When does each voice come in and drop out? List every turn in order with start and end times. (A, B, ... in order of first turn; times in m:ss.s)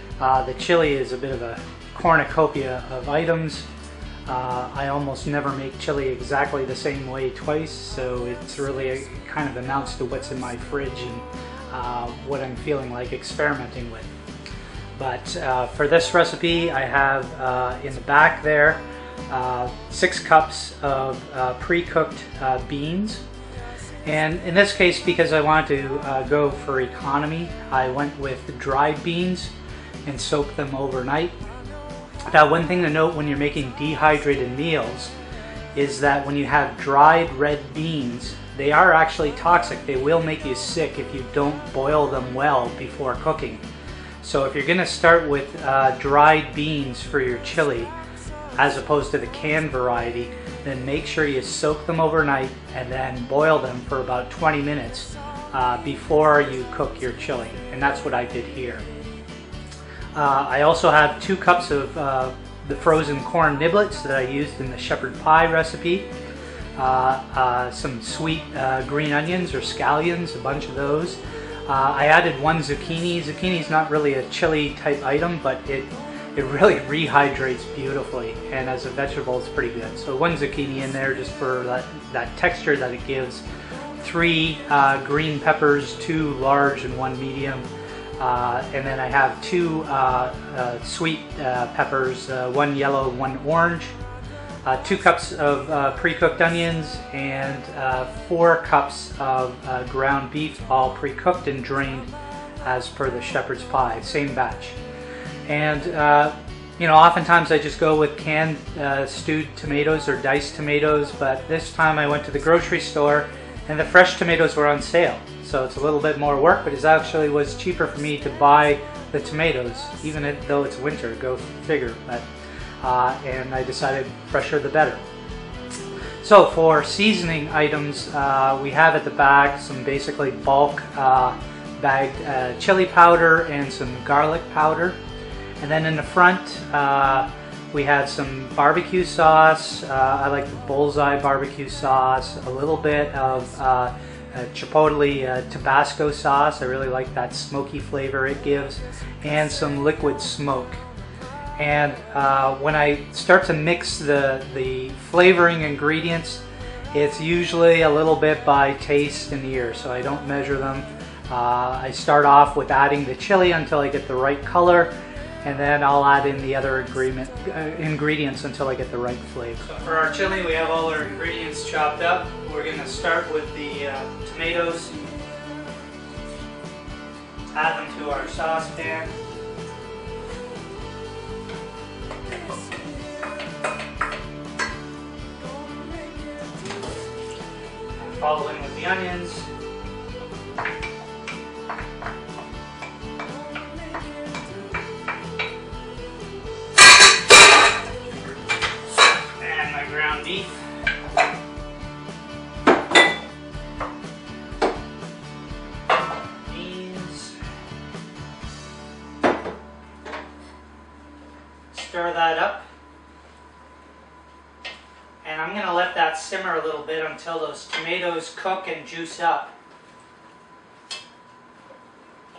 0:00.2-0:03.7 A
0:04.3-0:14.1 A
0:15.0-0:23.2 A
0:24.0-0:29.5 A
0:30.1-0:31.4 A
0:32.3-0:35.1 A
0:35.8-0:43.6 A
0:44.2-0:47.9 A
0:48.6-0:58.8 A
1:00.1-1:06.1 A
1:06.8-1:23.4 A
1:24.0-1:27.7 A
1:28.2-1:34.0 A
1:34.6-1:42.1 A
1:42.6-1:44.8 A
1:45.5-2:02.3 A
2:02.8-2:05.0 A
2:06.2-2:15.0 A
2:15.6-2:30.8 A
2:31.6-2:44.9 A
2:45.4-2:55.0 A
2:57.5-2:59.1 A
3:08.0-3:09.5 A
3:19.4-3:20.6 A
3:26.5-3:27.4 A
3:31.7-3:32.7 A
3:35.2-3:39.6 A